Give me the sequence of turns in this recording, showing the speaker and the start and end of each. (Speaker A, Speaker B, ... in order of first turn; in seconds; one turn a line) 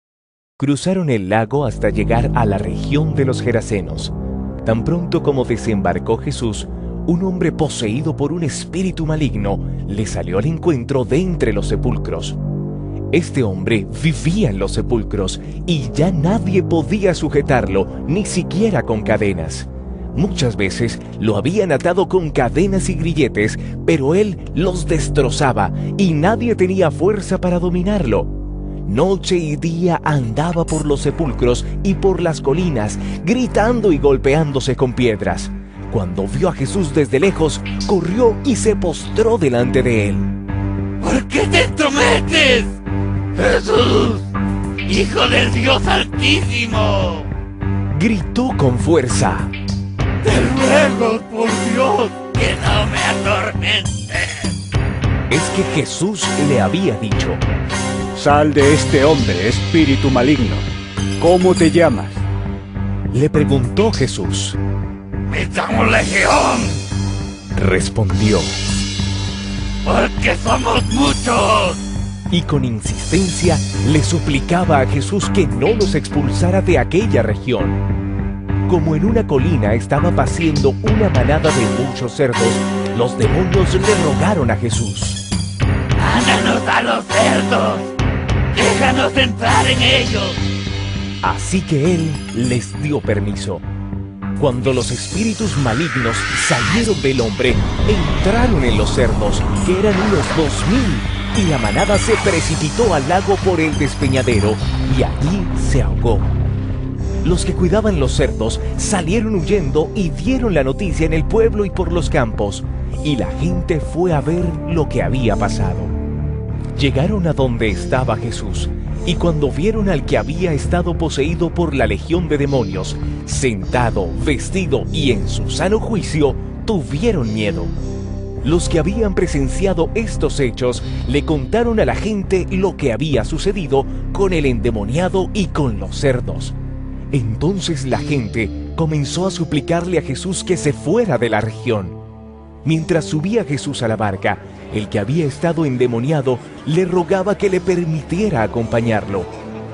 Speaker A: 0.6-12.4
Speaker A: 13.1-28.3
Speaker A: 28.9-40.3
Speaker B: 41.0-42.7
Speaker B: 43.4-44.2
Speaker B: 44.9-47.3
Speaker A: 47.9-49.5
Speaker B: 50.2-54.5
Speaker A: 55.3-57.4
Speaker C: 58.1-62.2
Speaker A: 63.1-64.6
Speaker B: 65.3-66.7
Speaker A: 67.5-68.5
Speaker B: 69.8-71.8
Speaker A: 72.3-77.8
Speaker A: 78.7-85.2
Speaker B: 86.0-87.9
Speaker B: 88.5-90.4
Speaker A: 91.2-93.6
Speaker A: 94.4-106.3
Speaker A: 107.2-115.9
Speaker A: 116.7-127.7
Speaker A: 128.4-136.5
Speaker A: 137.1-142.0
Speaker A: 142.6-149.3